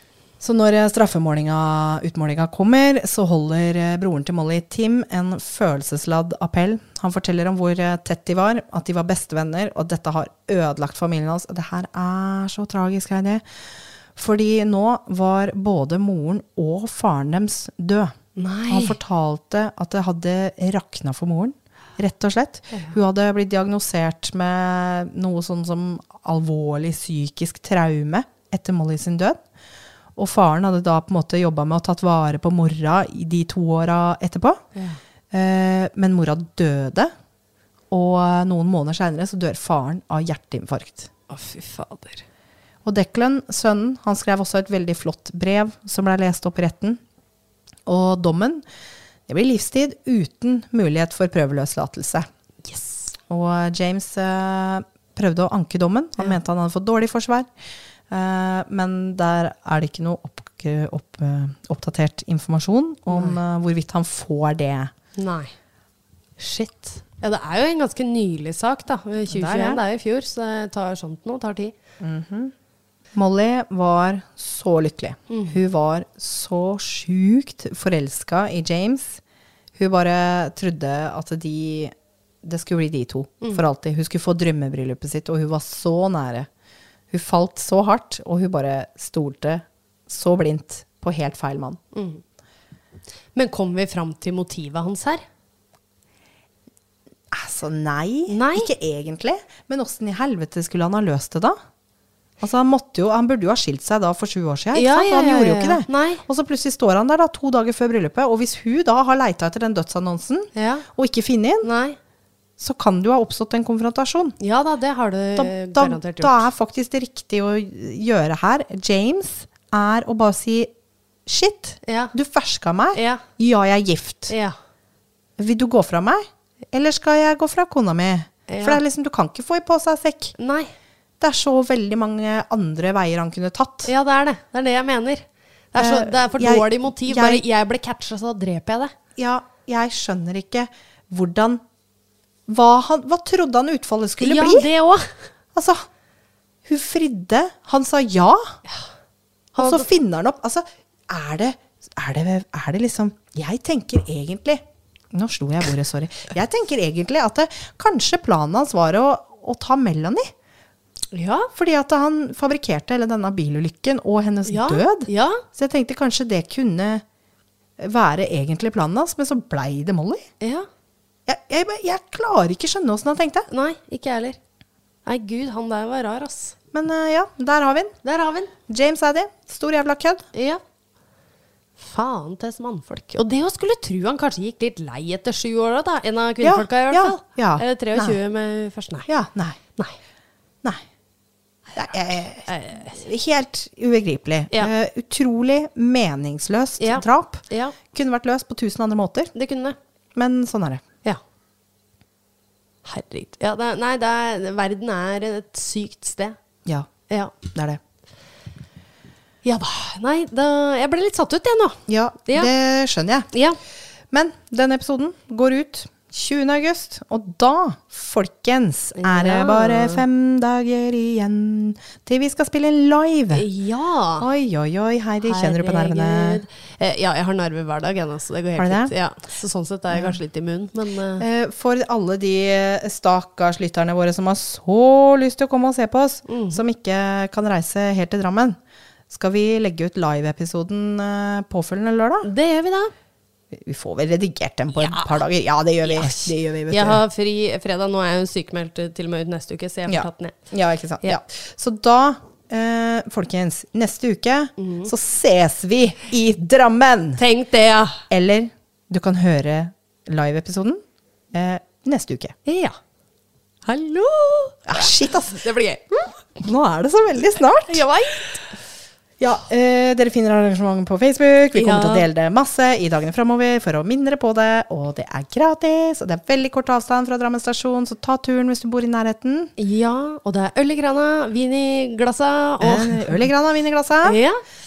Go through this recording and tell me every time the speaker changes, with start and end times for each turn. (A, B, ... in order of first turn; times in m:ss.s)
0:00.4-0:13.4 A
0:14.1-0:18.2 A
0:18.4-0:18.9 B
0:18.7-0:29.4 A
0:30.2-0:34.6 A
0:35.3-0:37.1 A
0:37.9-0:41.1 A
0:41.3-0:42.2 B
0:42.8-0:47.0 A
0:47.9-0:48.6 A
0:49.3-0:52.3 A
0:52.6-0:53.2 B
0:53.3-0:57.5 A
0:58.1-1:04.9 A
1:03.1-1:03.4 B
1:05.2-1:05.5 B
1:06.4-1:11.7 B
1:09.3-1:09.8 A
1:12.0-1:12.5 A
1:13.1-1:19.2 A
1:15.3-1:15.6 B
1:19.7-1:26.5 A
1:27.1-1:31.8 A
1:31.9-1:32.2 B
1:33.3-1:35.2 B
1:37.3-1:41.6 A
1:38.3-1:38.7 B
1:42.4-1:51.7 A
1:44.7-1:46.2 B
1:50.6-1:50.9 B
1:51.6-1:52.0 B
1:52.6-1:54.4 A
1:54.4-1:56.4 B
1:55.4-2:00.7 A
2:01.2-2:04.3 A
2:01.8-2:02.1 B
2:02.9-2:03.2 B
2:04.3-2:04.6 B
2:05.4-2:10.3 A
2:08.5-2:08.8 B
2:10.4-2:10.7 B
2:11.2-2:13.9 A
2:13.9-2:18.9 B
2:15.8-2:17.4 A
2:19.2-2:21.6 A
2:22.5-2:24.7 A
2:24.2-2:25.2 B
2:25.5-2:25.9 A
2:26.6-2:28.6 A
2:29.6-2:40.3 A
2:29.6-2:29.9 B
2:41.1-2:41.5 B
2:41.5-2:47.0 A
2:44.5-2:45.4 B
2:47.8-2:50.2 A
2:50.4-2:50.7 B
2:51.2-2:53.4 A
2:53.5-2:54.4 B
2:55.0-2:56.6 B
2:56.7-2:57.9 A
2:58.0-2:58.5 B
2:58.7-3:00.2 A
3:00.3-3:00.6 B
3:01.8-3:09.1 B
3:06.4-3:08.2 A
3:09.1-3:09.6 A
3:11.7-3:19.3 A
3:12.4-3:13.0 B
3:16.8-3:17.8 B
3:19.3-3:19.8 B
3:20.1-3:20.8 A
3:22.8-3:26.4 B
3:27.1-3:27.4 B
3:27.4-3:27.8 A
3:29.4-3:32.5 B
3:31.9-3:33.3 A
3:33.3-3:33.6 B
3:34.1-3:43.4 A
3:39.0-3:40.0 B
3:43.3-3:44.3 B
3:44.2-3:46.4 A
3:45.2-3:51.2 B
3:48.6-3:48.9 A
3:51.2-3:58.6 A
3:56.3-3:56.6 B
3:59.1-4:02.3 A
4:02.2-4:02.9 B
4:03.5-4:07.0 A
4:04.7-4:05.2 B
4:05.8-4:10.5 B
4:09.9-4:17.2 A
4:14.6-4:14.9 B
4:17.2-4:18.0 B
4:18.1-4:22.4 A
4:22.4-4:22.8 B
4:23.6-4:26.1 B
4:24.7-4:25.4 A
4:26.4-4:27.8 A
4:27.6-4:28.6 B
4:29.2-4:39.5 A
4:31.6-4:32.0 B
4:39.6-4:43.2 B
4:42.6-4:44.2 A
4:44.0-4:44.4 B